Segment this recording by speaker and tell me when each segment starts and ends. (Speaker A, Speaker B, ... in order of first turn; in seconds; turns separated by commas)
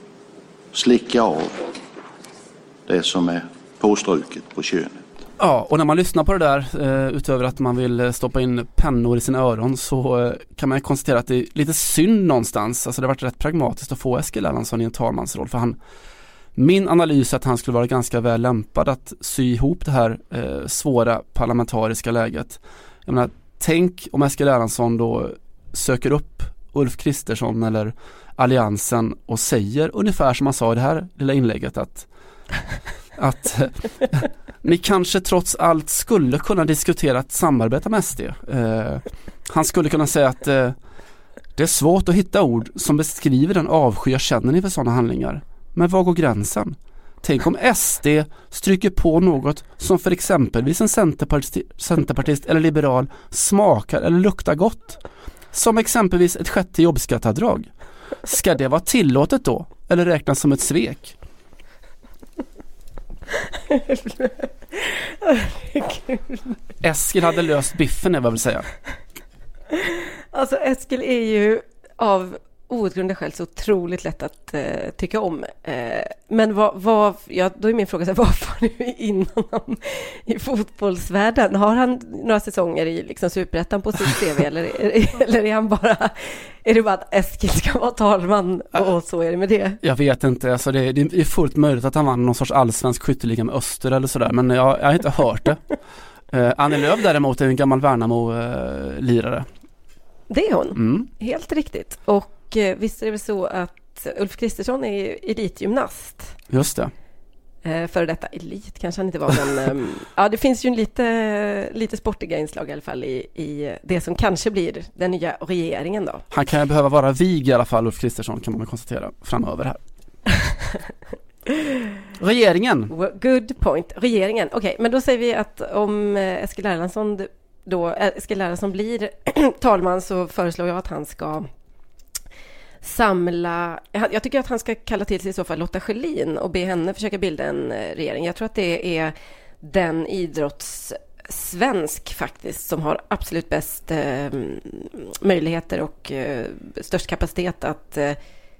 Speaker A: 0.7-1.8, Speaker A: 2.9-5.0, Speaker B: 5.4-15.8, Speaker B: 16.6-32.1, Speaker B: 33.1-40.8, Speaker B: 41.5-55.0, Speaker B: 55.5-57.7, Speaker B: 58.2-61.1, Speaker C: 63.5-66.5, Speaker B: 66.8-68.7, Speaker C: 69.7-89.8, Speaker B: 89.8-95.6, Speaker B: 96.3-99.5, Speaker C: 100.3-106.4, Speaker B: 100.7-101.1, Speaker B: 106.5-106.9, Speaker C: 107.6-116.2, Speaker B: 116.3-119.8, Speaker C: 120.4-120.8, Speaker B: 122.2-122.9, Speaker C: 122.9-131.5, Speaker C: 132.8-148.2